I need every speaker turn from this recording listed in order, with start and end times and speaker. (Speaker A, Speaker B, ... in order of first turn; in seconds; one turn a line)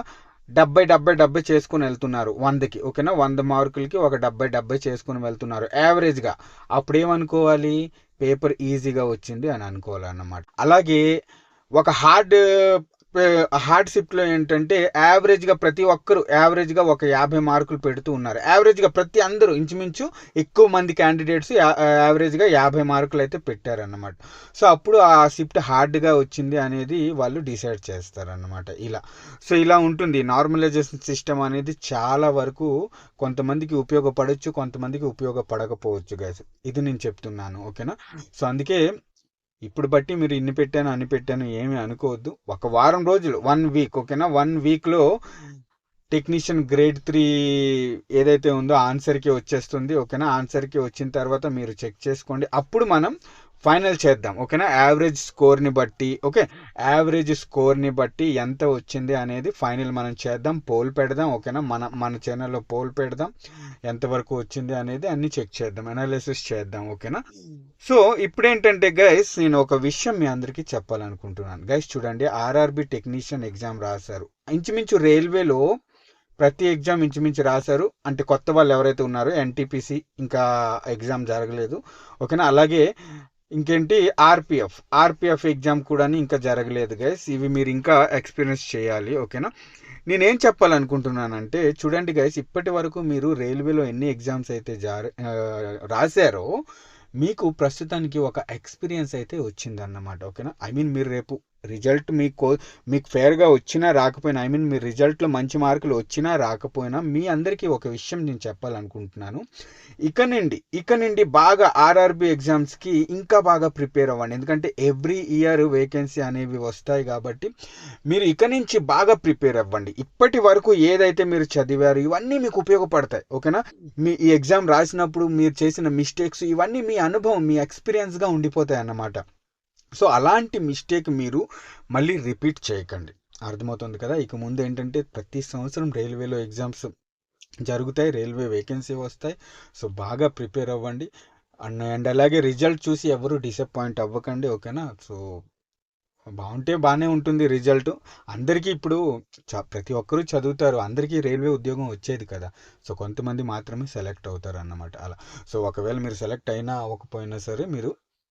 Speaker A: 0.6-11.0
Speaker A: 11.8-12.4
Speaker A: 13.2-32.7
Speaker A: 33.2-38.8
Speaker A: 39.6-45.0
Speaker A: 46.1-63.3
Speaker A: 63.9-67.2
Speaker A: 67.9-75.6
Speaker A: 76.4-82.8
Speaker A: 83.6-89.5
Speaker A: 90.1-96.5
Speaker A: 97.2-109.4
Speaker A: 110.0-117.5
Speaker A: 118.1-129.2
Speaker A: 130.0-131.4
Speaker A: 131.9-136.9
Speaker A: 137.7-141.1
Speaker A: 141.7-145.2
Speaker A: 146.4-149.0
Speaker A: 149.5-157.9